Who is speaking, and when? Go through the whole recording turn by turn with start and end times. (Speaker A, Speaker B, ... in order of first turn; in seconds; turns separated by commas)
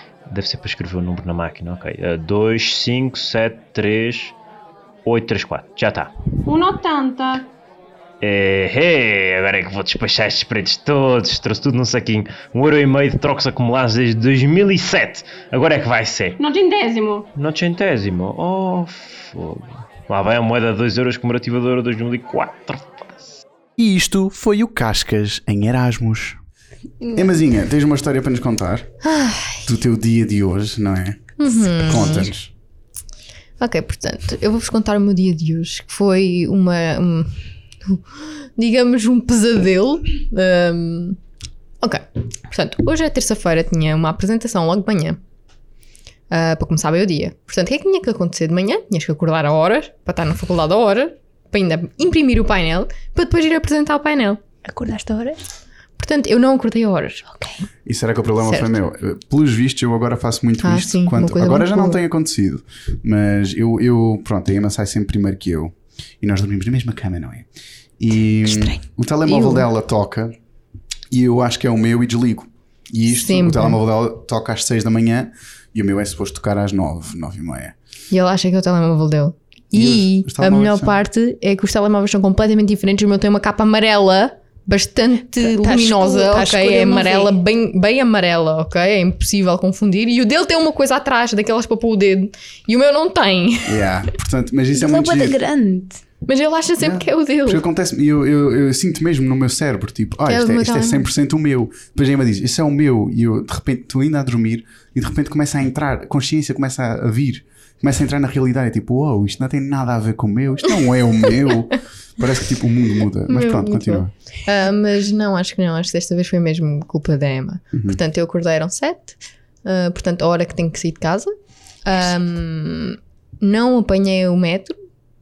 Speaker A: 0.3-4.3, Speaker A: 5.0-6.1, Speaker B: 6.5-7.5, Speaker A: 8.2-16.4, Speaker B: 16.4-17.2, Speaker A: 17.3-23.4, Speaker C: 23.8-26.4, Speaker C: 27.1-28.9, Speaker D: 29.0-29.7, Speaker C: 29.6-32.5, Speaker D: 31.4-32.3, Speaker D: 33.6-38.0, Speaker D: 38.6-41.2, Speaker D: 41.8-45.2, Speaker D: 46.3-54.4, Speaker E: 54.6-55.4, Speaker D: 56.0-57.3, Speaker E: 57.3-57.6, Speaker C: 57.8-67.5, Speaker D: 58.5-58.7, Speaker D: 60.6-62.0, Speaker C: 68.0-70.3, Speaker E: 68.4-68.8, Speaker D: 69.2-69.7, Speaker C: 71.1-77.7, Speaker D: 73.1-73.8, Speaker D: 78.1-94.0, Speaker C: 79.7-81.0, Speaker E: 85.4-87.3, Speaker C: 93.6-95.4, Speaker E: 94.7-96.0, Speaker D: 96.2-97.6, Speaker C: 96.8-114.1, Speaker D: 100.3-101.1, Speaker D: 113.3-121.3, Speaker C: 117.7-118.0, Speaker D: 121.8-124.8